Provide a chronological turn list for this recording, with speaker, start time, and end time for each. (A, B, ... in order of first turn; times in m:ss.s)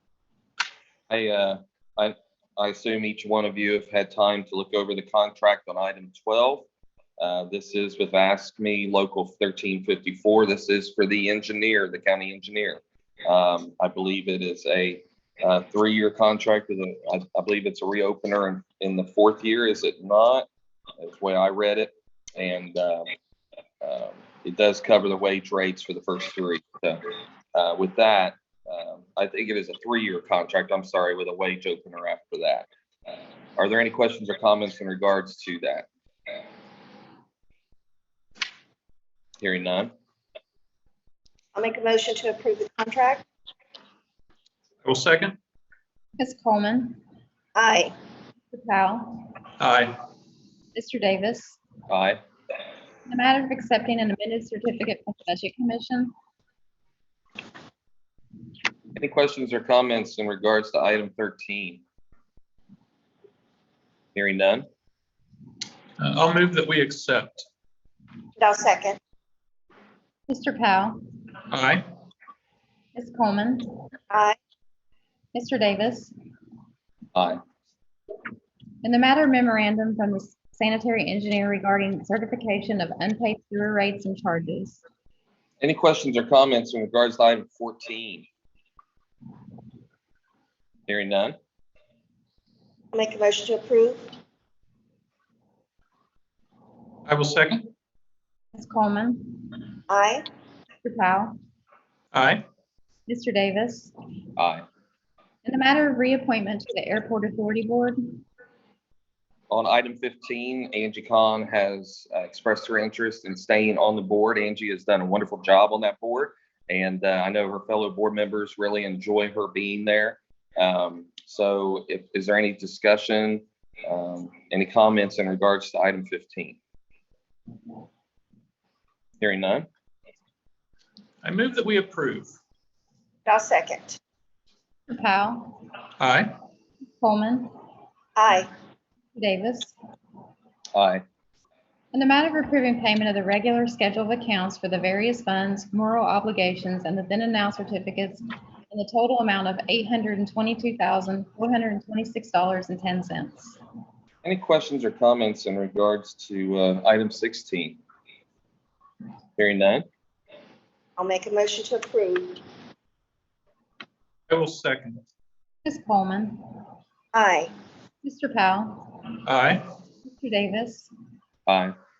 0:01.1-0:06.7 A
0:07.2-0:20.5 A
0:21.0-0:23.1 A
0:23.8-0:32.7 A
0:33.6-0:35.9 A
0:39.4-0:39.9 A
0:41.5-0:43.2 B
0:44.8-0:45.4 C
0:46.2-0:47.0 D
0:47.5-0:47.9 B
0:48.5-0:49.3 D
0:49.6-0:50.0 C
0:50.7-0:51.6 D
0:51.9-0:52.2 A
0:53.1-0:56.1 D
0:59.0-1:01.8 A
1:04.1-1:04.7 A
1:06.0-1:07.4 C
1:08.4-1:09.0 B
1:10.3-1:11.0 D
1:11.5-1:11.8 C
1:12.9-1:13.7 D
1:14.1-1:14.4 B
1:15.3-1:16.1 D
1:17.1-1:17.4 A
1:18.8-1:24.8 D
1:25.6-1:28.3 A
1:30.9-1:31.4 A
1:32.9-1:34.1 B
1:37.0-1:37.6 C
1:38.5-1:39.6 D
1:39.9-1:40.2 B
1:40.8-1:41.3 D
1:42.1-1:42.4 C
1:43.1-1:43.9 D
1:44.4-1:44.6 A
1:45.4-1:48.2 D
1:49.5-2:06.6 A
2:09.2-2:09.7 A
2:11.2-2:12.3 C
2:13.2-2:14.0 B
2:14.9-2:15.6 D
2:16.0-2:16.3 C
2:17.0-2:17.5 D
2:18.2-2:18.5 B
2:19.1-2:19.8 D
2:20.7-2:21.0 A
2:21.9-2:33.6 D
2:34.2-2:37.8 A
2:39.4-2:39.8 A
2:41.0-2:42.4 B
2:44.3-2:45.0 C
2:45.6-2:46.4 D
2:47.1-2:47.5 B
2:48.0-2:49.0 D
2:49.2-2:49.6 C
2:50.0-2:50.9 D
2:51.5-2:51.8 A